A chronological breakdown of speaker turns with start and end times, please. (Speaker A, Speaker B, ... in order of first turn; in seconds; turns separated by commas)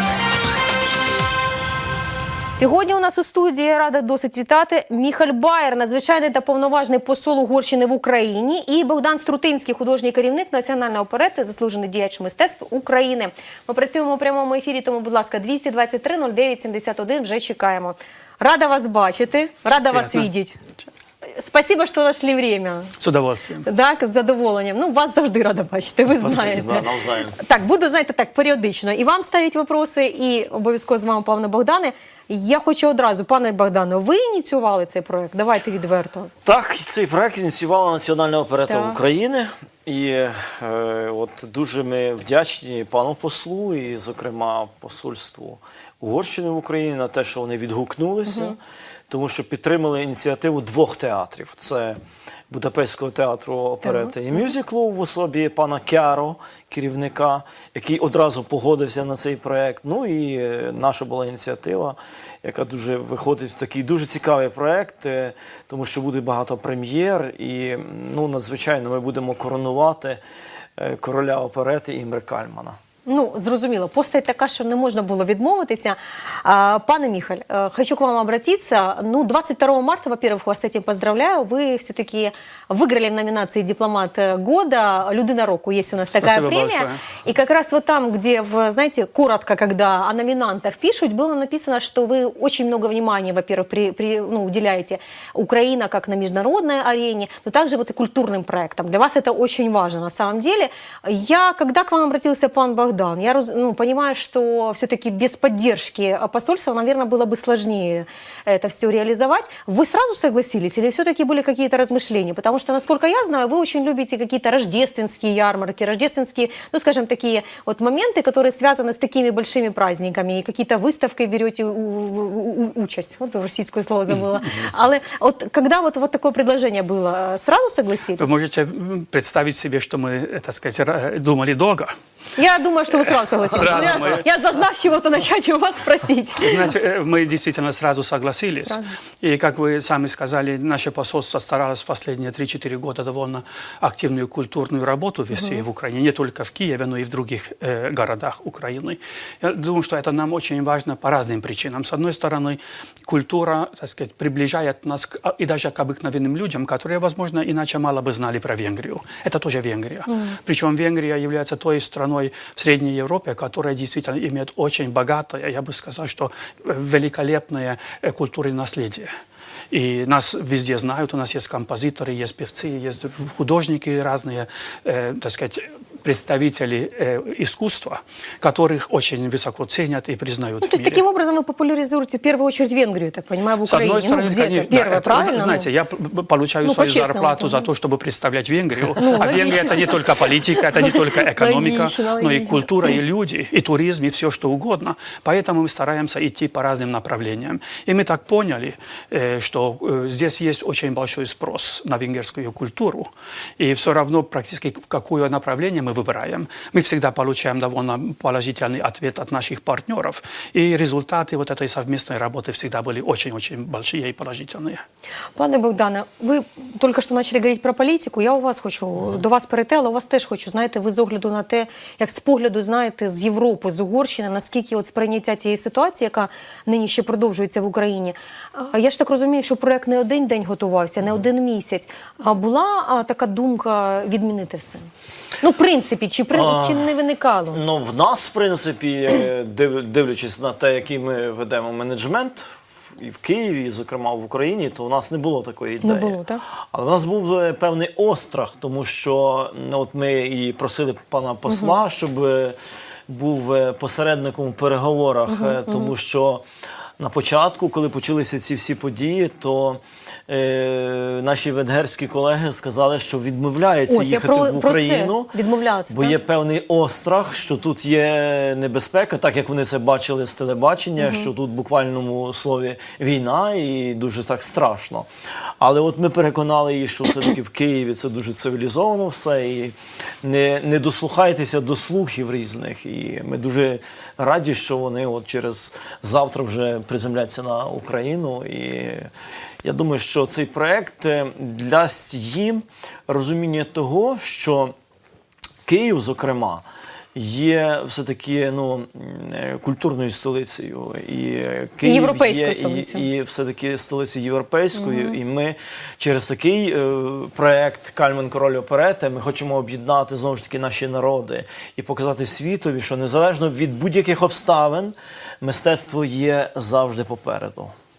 Speaker A: 2.5-20.6, Speaker B: 19.9-20.2, Speaker A: 21.2-22.9, Speaker B: 23.0-23.7, Speaker A: 23.6-36.3, Speaker C: 26.1-27.4, Speaker C: 36.4-48.6, Speaker A: 38.7-39.0, Speaker A: 48.3-48.5, Speaker C: 49.1-52.0, Speaker C: 52.5-70.2, Speaker A: 53.9-54.1, Speaker C: 70.8-72.8, Speaker A: 73.0-128.3, Speaker B: 86.1-87.0, Speaker B: 128.2-131.9, Speaker A: 132.3-136.7, Speaker B: 133.2-134.2, Speaker B: 136.4-169.1, Speaker A: 138.7-138.9, Speaker A: 145.3-145.6, Speaker B: 169.7-181.0, Speaker A: 180.6-185.7, Speaker B: 183.6-214.8, Speaker A: 186.6-187.7, Speaker A: 189.0-193.0, Speaker A: 215.3-234.8, Speaker A: 235.4-237.6, Speaker C: 236.3-236.9, Speaker C: 237.5-246.2, Speaker A: 245.8-246.4, Speaker C: 246.7-252.6, Speaker A: 251.5-251.8, Speaker C: 253.1-256.4, Speaker A: 255.3-255.9, Speaker C: 257.0-265.3, Speaker A: 263.9-266.2, Speaker C: 265.9-275.1, Speaker A: 271.0-271.3, Speaker C: 275.6-289.1, Speaker C: 289.6-294.7, Speaker C: 295.6-317.7, Speaker A: 301.8-303.1, Speaker A: 304.7-305.2